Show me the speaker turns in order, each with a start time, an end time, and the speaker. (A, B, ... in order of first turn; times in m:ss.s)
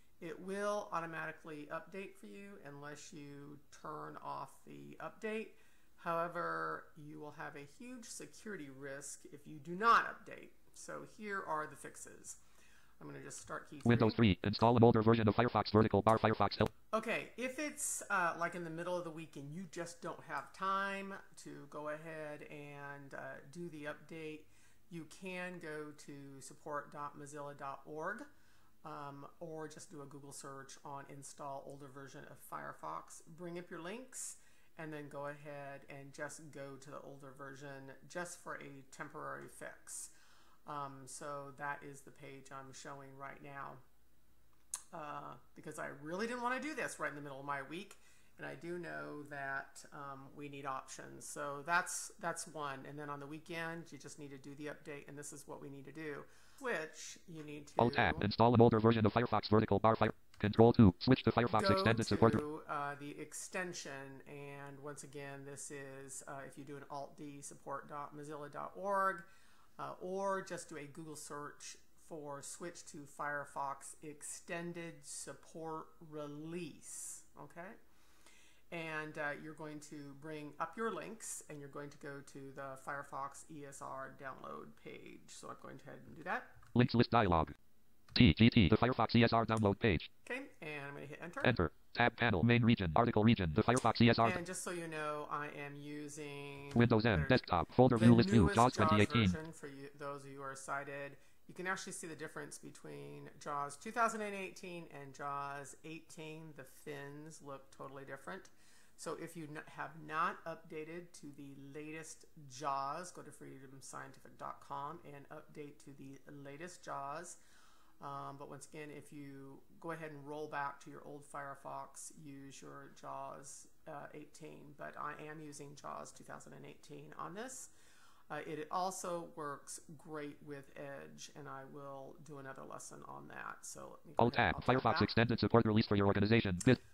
0:00.2-0:12.4 A
0:13.0-0:14.2 A
0:13.8-0:16.7 B
0:16.9-0:28.3 A
0:28.8-0:40.1 A
0:40.7-0:43.8 A
0:44.9-0:58.3 A
0:57.8-1:02.4 B
1:01.5-1:09.3 A
1:09.8-1:17.8 A
1:18.7-1:26.6 A
1:26.7-1:27.5 B
1:28.2-1:30.1 B
1:30.3-1:31.6 A
1:31.4-1:34.4 B
1:34.2-1:57.4 A
1:36.8-1:39.4 B
1:58.0-2:07.7 A
2:08.3-2:15.1 A
2:14.2-2:16.8 B